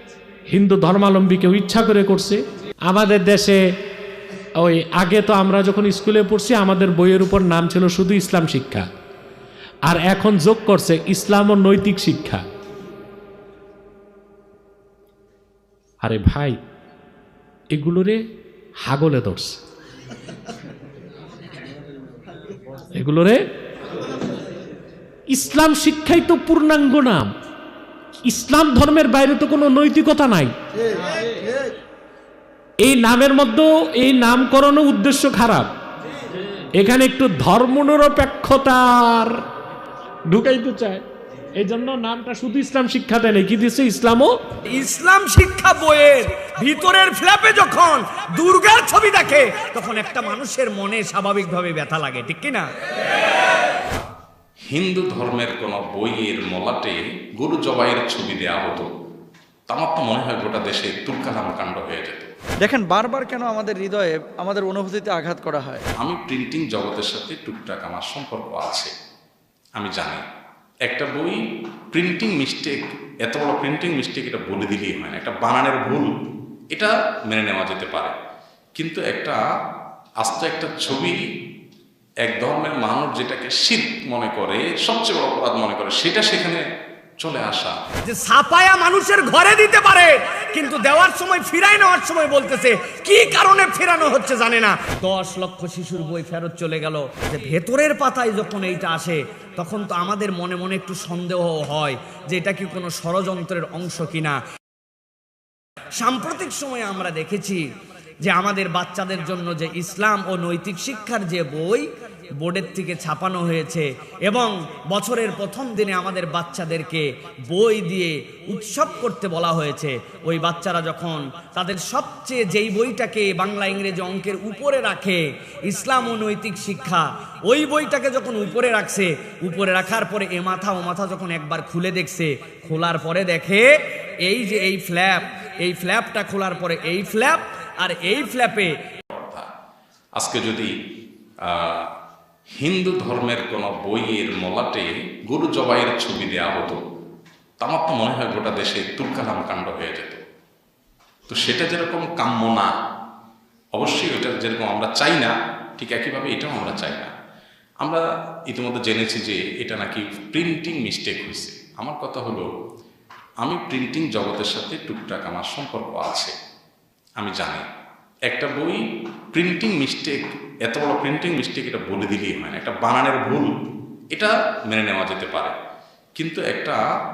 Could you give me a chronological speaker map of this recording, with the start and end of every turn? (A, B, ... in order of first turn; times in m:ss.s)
0:00.5-0:03.6 A
0:04.6-0:08.9 A
0:09.9-0:12.4 A
0:16.0-0:16.6 A
0:17.7-0:18.2 A
0:18.8-0:19.6 A
0:23.0-0:23.4 A
0:25.3-0:27.3 A
0:28.2-0:30.6 A
0:32.8-0:35.7 A
0:36.8-0:39.4 A
0:40.3-0:41.0 A
0:41.6-0:44.3 A
0:44.7-0:52.6 B
0:54.7-0:58.9 C
0:59.7-1:02.3 C
1:02.6-1:05.8 D
1:06.0-1:08.9 C
1:09.8-1:10.2 C
1:10.9-1:11.4 C
1:11.9-1:16.1 C
1:16.7-1:18.1 C
1:18.8-1:19.4 C
1:20.2-1:21.2 C
1:22.2-1:26.6 C
1:27.2-1:27.8 C
1:28.0-1:44.4 B
1:46.0-1:47.6 B
1:48.2-1:51.8 B
1:52.4-2:13.7 B
2:14.2-2:18.7 B
2:19.1-2:19.5 C
2:20.2-2:20.7 C
2:21.5-2:21.9 C
2:22.6-2:26.8 C
2:27.6-2:30.2 C
2:31.3-2:32.7 C
2:33.8-2:37.1 C
2:37.8-2:42.5 C
2:43.4-2:46.3 C
2:47.2-2:47.6 C
2:48.3-2:48.8 C
2:49.3-2:53.5 C
2:54.1-2:55.5 C
2:56.2-2:56.8 C